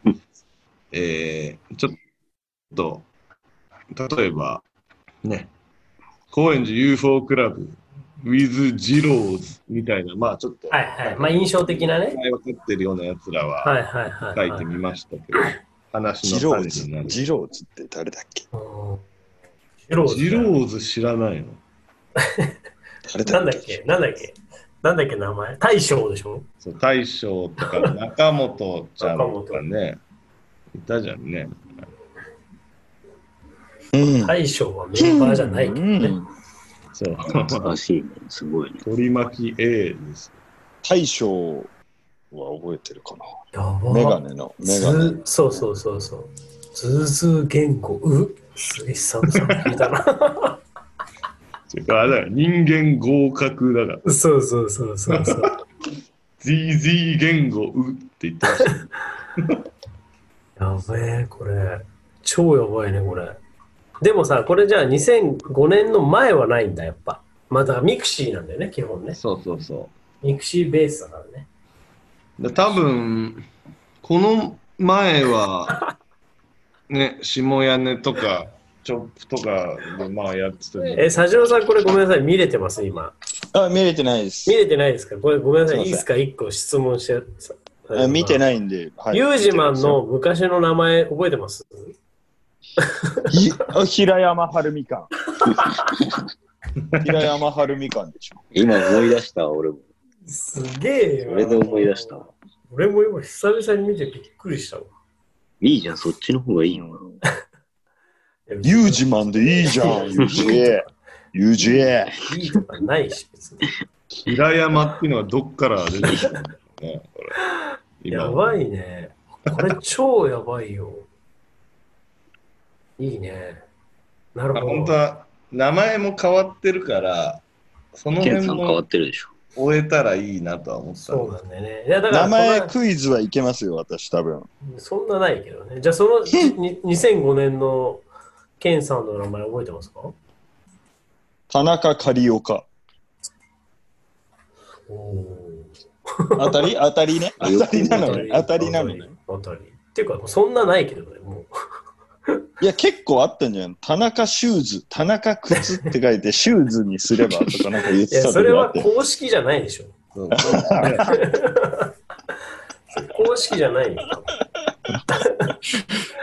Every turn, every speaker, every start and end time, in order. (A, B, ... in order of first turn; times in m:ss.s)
0:00.9-0:02.0 A
0:02.7-0:03.1 A
0:03.9-0:04.6 A
0:05.2-0:05.5 A
0:06.3-0:13.8 A
0:10.7-0:12.2 B
0:13.6-0:14.7 B
0:14.4-0:17.2 A
0:16.2-0:18.5 C
0:18.5-0:19.0 B
0:19.9-0:20.6 B
0:20.0-0:21.6 A
0:22.2-0:22.5 B
0:23.1-0:23.8 C
0:23.3-0:26.5 B
0:26.6-0:30.0 A
0:29.0-0:29.6 B
0:30.7-0:31.9 A
0:33.9-0:34.4 C
0:34.2-0:36.2 B
0:35.0-0:36.3 C
0:37.0-0:37.7 A
0:37.5-0:38.8 D
0:38.8-0:40.4 A
0:40.8-0:41.7 C
0:42.3-0:43.3 C
0:43.5-0:50.6 B
0:43.9-0:45.2 C
0:49.3-0:49.7 A
0:51.7-0:54.0 A
0:54.0-0:55.5 B
0:55.2-0:55.5 A
0:56.4-0:59.5 A
1:00.6-1:03.4 B
1:04.0-1:09.2 B
1:09.2-1:09.9 A
1:10.2-1:11.5 B
1:12.4-1:13.5 A
1:14.0-1:15.8 A
1:16.9-1:21.5 A
1:20.9-1:23.1 B
1:23.5-1:24.6 C
1:24.5-1:28.4 B
1:25.7-1:26.1 C
1:27.9-1:30.0 C
1:29.1-1:31.9 B
1:32.8-1:33.2 B
1:33.3-1:35.1 C
1:37.0-1:38.4 C
1:38.5-1:39.9 D
1:40.3-1:42.2 B
1:41.3-1:42.3 D
1:42.7-1:44.9 B
1:45.6-1:47.0 D
1:46.7-1:47.0 C
1:48.5-1:50.9 B
1:48.6-1:52.2 C
1:51.6-1:53.7 B
1:54.2-1:57.4 A
1:58.0-1:58.6 A
1:58.1-2:01.1 B
2:03.0-2:03.6 B
2:04.4-2:05.0 B
2:04.5-2:07.4 A
2:08.0-2:08.8 A
2:08.2-2:09.3 D
2:09.6-2:11.4 A
2:11.1-2:12.7 B
2:12.1-2:14.5 C
2:14.6-2:18.0 B
2:18.6-2:20.1 B
2:21.5-2:22.7 C
2:24.9-2:26.7 B
2:26.4-2:29.1 C
2:27.4-2:28.3 D
2:27.7-2:31.5 B
2:32.6-2:38.9 C
2:38.1-2:39.9 B
2:40.2-2:41.2 A
2:40.3-2:41.1 C
2:41.1-2:41.9 B
2:42.9-2:44.3 B
2:45.1-2:45.5 B